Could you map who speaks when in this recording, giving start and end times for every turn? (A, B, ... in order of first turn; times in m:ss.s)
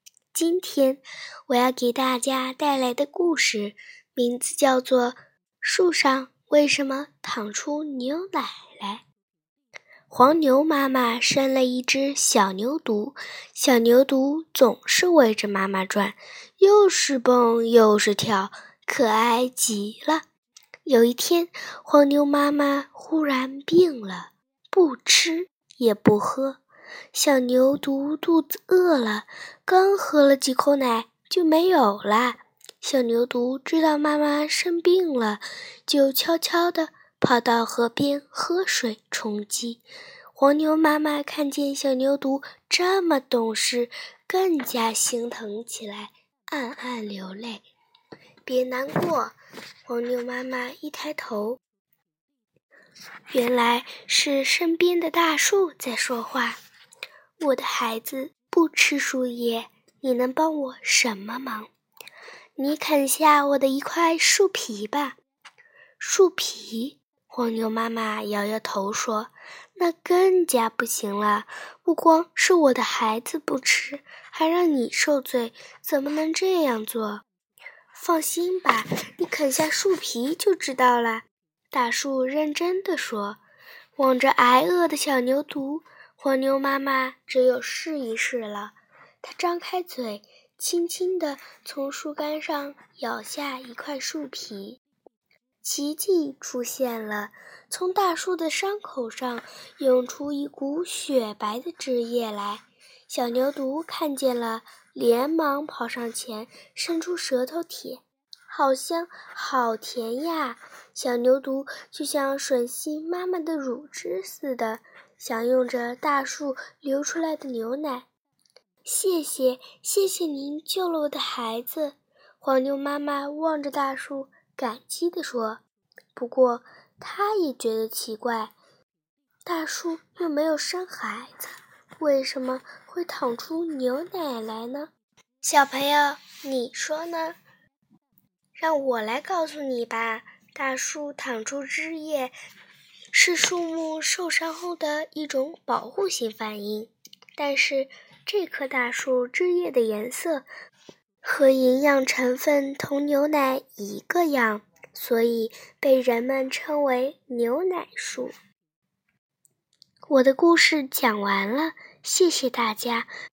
0:00.3-0:09.0 A
0:10.1-0:20.2 A
0:20.8-0:26.6 A
0:27.1-0:39.8 A
0:40.4-0:47.6 A
0:48.4-0:49.4 A
0:49.9-0:51.6 A
0:53.3-0:56.6 A
0:57.4-1:01.7 A
1:02.6-1:05.2 A
1:06.0-1:17.2 A
1:17.9-1:23.4 A
1:24.0-1:34.8 A
1:35.6-1:58.1 A
1:58.8-2:05.6 A
2:06.2-2:08.5 A
2:09.4-2:14.9 A
2:15.4-2:17.4 A
2:18.6-2:22.3 A
2:23.1-2:30.5 A
2:31.2-2:38.4 A
2:40.1-2:43.1 A